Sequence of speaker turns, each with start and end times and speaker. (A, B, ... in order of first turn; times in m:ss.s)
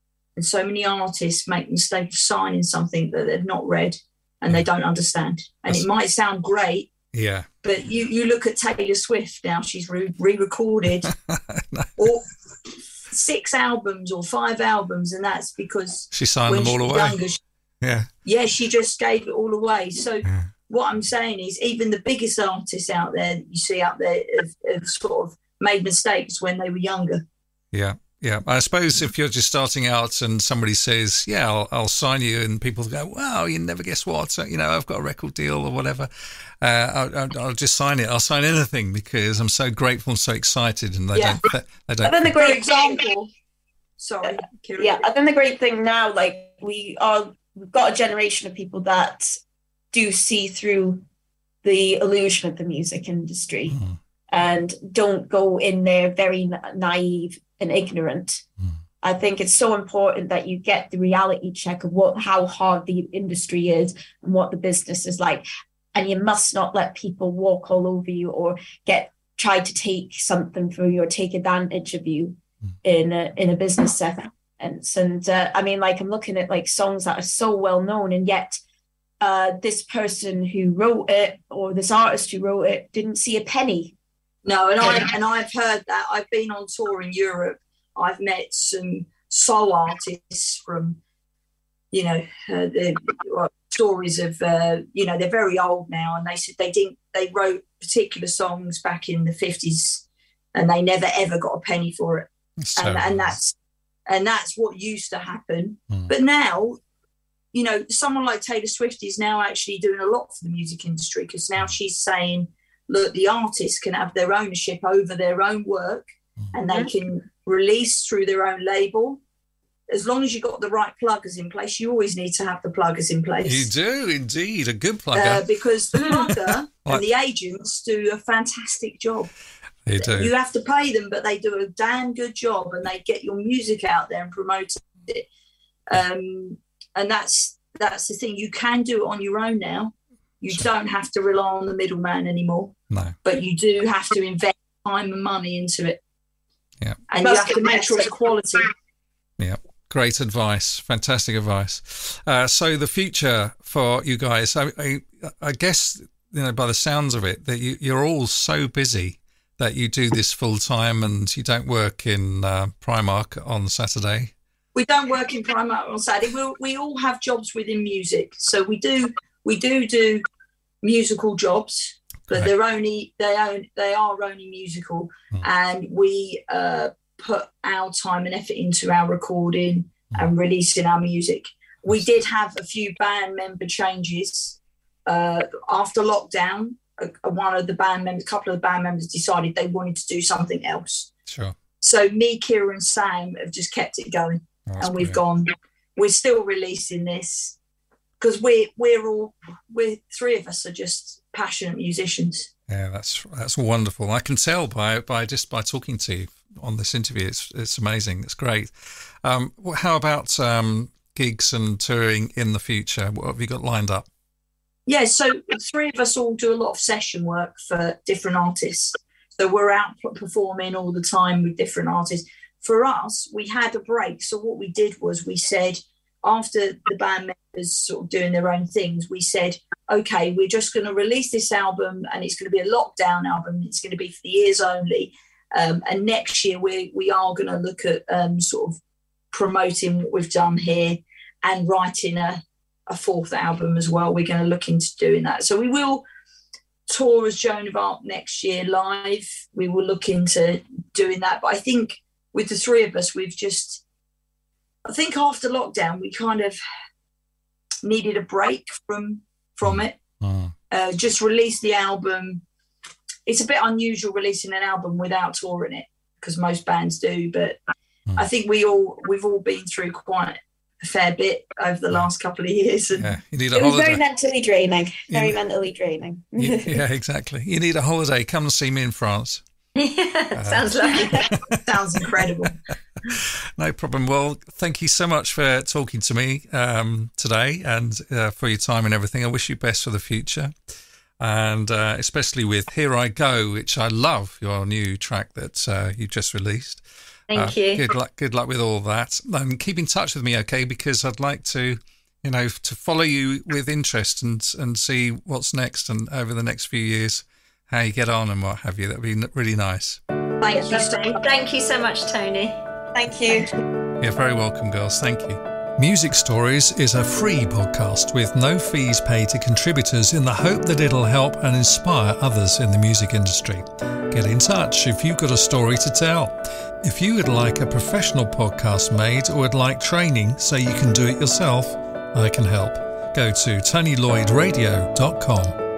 0:00.4-0:06.9 A
0:07.1-0:07.5 B
0:07.6-0:11.1 A
0:11.3-0:12.0 B
0:12.0-0:12.3 A
0:13.1-0:17.4 A
0:16.1-0:17.2 B
0:17.8-0:18.1 B
0:18.2-0:27.2 A
0:27.7-0:42.4 B
0:41.1-0:41.4 A
0:42.0-0:43.0 C
0:42.3-0:43.3 A
0:44.0-0:45.0 A
0:44.2-0:49.4 C
0:49.9-0:51.0 C
0:51.6-0:53.8 C
0:53.7-0:54.0 B
0:54.3-0:58.4 C
0:59.0-1:18.6 C
1:19.2-1:23.9 C
1:24.4-1:31.0 A
1:31.9-1:43.5 A
1:42.6-1:43.4 B
1:44.1-1:46.8 A
1:47.5-1:59.2 A
1:56.6-1:56.9 C
1:59.9-2:03.7 A
2:03.4-2:07.0 B
2:05.1-2:09.3 A
2:09.8-2:10.3 B
2:10.0-2:15.3 A
2:15.9-2:26.0 A
2:22.9-2:23.2 B
2:27.1-2:28.7 A
2:27.2-2:28.1 C
2:29.4-2:44.3 B
2:44.7-2:50.2 A
2:50.8-3:11.1 A
3:11.3-3:11.5 B
3:11.8-3:17.6 A
3:14.7-3:15.2 B
3:18.2-3:22.5 A
3:22.7-3:34.1 B
3:34.8-3:58.8 A
3:59.3-4:06.0 A
4:06.9-4:13.8 A
4:14.8-4:16.6 A
4:17.8-4:19.9 A
4:19.6-4:20.5 B
4:20.7-4:22.4 A
4:23.2-4:27.6 A
4:28.2-4:33.1 A
4:33.0-4:34.0 B
4:33.5-4:36.8 C
4:35.1-4:35.4 B
4:36.4-4:39.4 B
4:39.7-4:41.3 D
4:40.3-4:41.6 B
4:41.1-4:42.6 A
4:43.0-4:50.5 B
4:51.2-5:10.0 B
4:57.3-4:57.8 D
5:10.4-5:11.2 A
5:10.6-5:12.6 D
5:12.9-5:13.5 C
5:14.0-5:35.6 B